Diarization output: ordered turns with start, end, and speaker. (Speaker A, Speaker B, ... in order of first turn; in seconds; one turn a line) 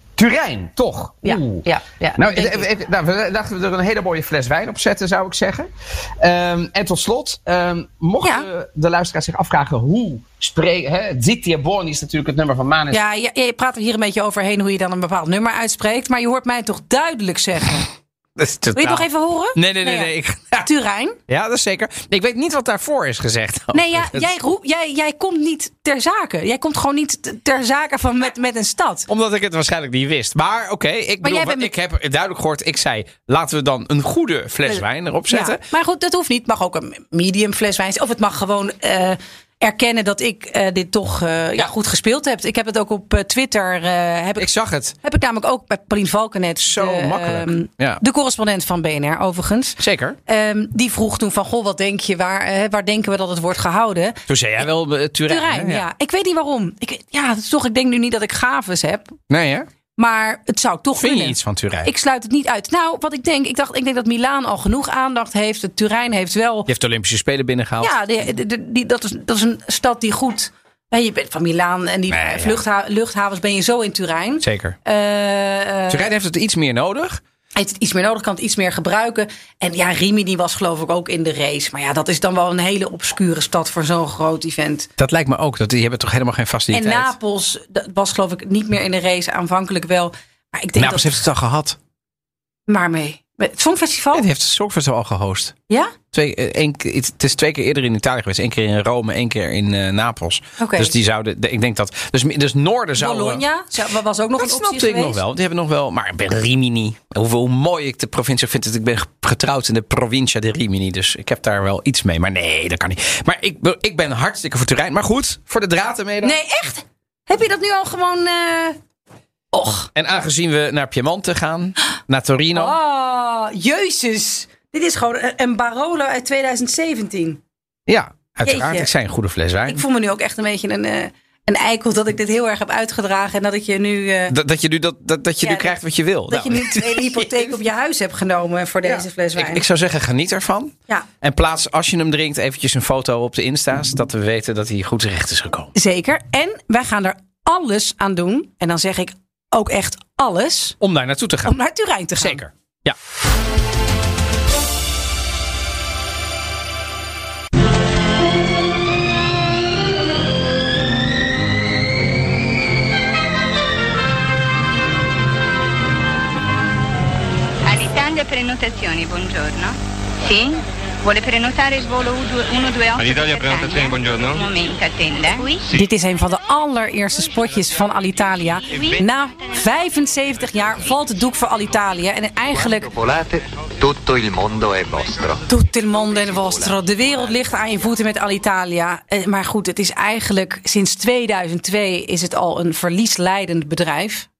Speaker A: 0.2-13.0
Speaker B: 1.2-2.7
Speaker B: 8.2-8.5
Speaker B: 12.9-17.9
Speaker A: 18.4-20.7
Speaker B: 18.7-20.1
Speaker B: 20.6-21.2
Speaker A: 21.3-24.3
Speaker B: 23.7-29.1
Speaker A: 29.1-35.6
Speaker B: 31.2-31.7
Speaker B: 34.7-44.5
Speaker A: 44.4-45.0
Speaker B: 45.0-54.2
Speaker A: 46.6-48.0
Speaker A: 49.8-50.2
Speaker A: 54.3-55.8
Speaker B: 55.3-59.2
Speaker A: 59.3-59.7
Speaker B: 60.0-66.7
Speaker A: 61.0-61.9
Speaker A: 66.7-67.9
Speaker B: 67.8-76.0
Speaker A: 72.1-72.6
Speaker A: 74.4-74.8
Speaker A: 75.9-77.2
Speaker B: 77.5-84.9
Speaker A: 85.0-87.1
Speaker B: 86.7-91.2
Speaker A: 90.8-91.8
Speaker B: 92.7-94.2
Speaker A: 94.1-95.5
Speaker B: 95.7-95.9
Speaker A: 96.1-103.4
Speaker B: 100.6-100.9
Speaker B: 103.0-105.2
Speaker A: 104.4-116.4
Speaker B: 116.2-118.8
Speaker B: 119.5-119.9
Speaker A: 119.9-122.8
Speaker B: 122.5-127.4
Speaker A: 127.9-129.8
Speaker B: 128.4-128.9
Speaker B: 129.7-134.3
Speaker A: 134.3-137.6
Speaker B: 135.4-135.7
Speaker B: 136.3-139.6
Speaker A: 138.8-145.7
Speaker B: 145.7-150.8
Speaker A: 150.8-151.5
Speaker B: 151.4-152.4
Speaker A: 152.2-153.0
Speaker C: 167.7-175.7
Speaker B: 175.7-182.9
Speaker D: 182.6-185.4
Speaker B: 185.5-194.3